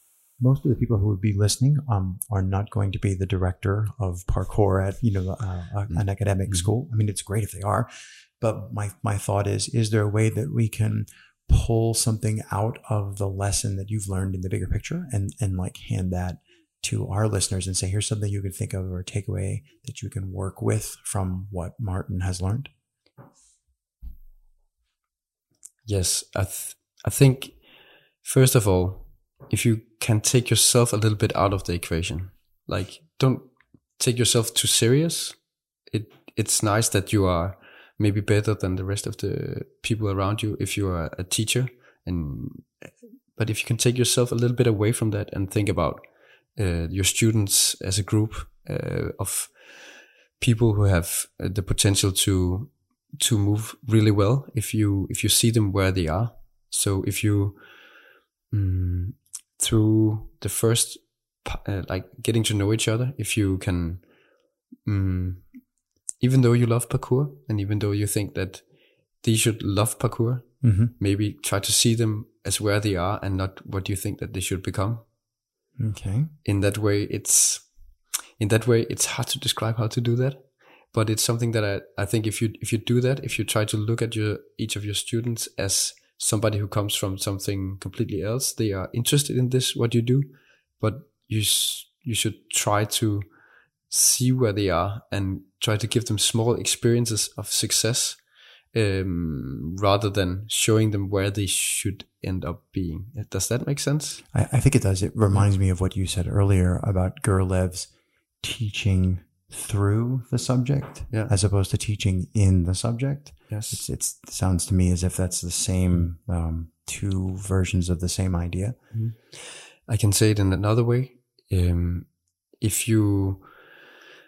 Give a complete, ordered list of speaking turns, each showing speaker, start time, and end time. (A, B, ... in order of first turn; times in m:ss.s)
0:00.4-0:07.9 A
0:05.9-0:06.7 B
0:08.4-0:22.7 A
0:25.8-1:04.3 B
1:04.8-1:15.1 B
1:10.6-1:10.9 A
1:15.8-1:16.3 A
1:16.4-1:33.3 B
1:33.8-1:44.3 B
1:44.3-1:58.9 A
1:53.5-1:53.8 B
1:58.9-2:03.8 B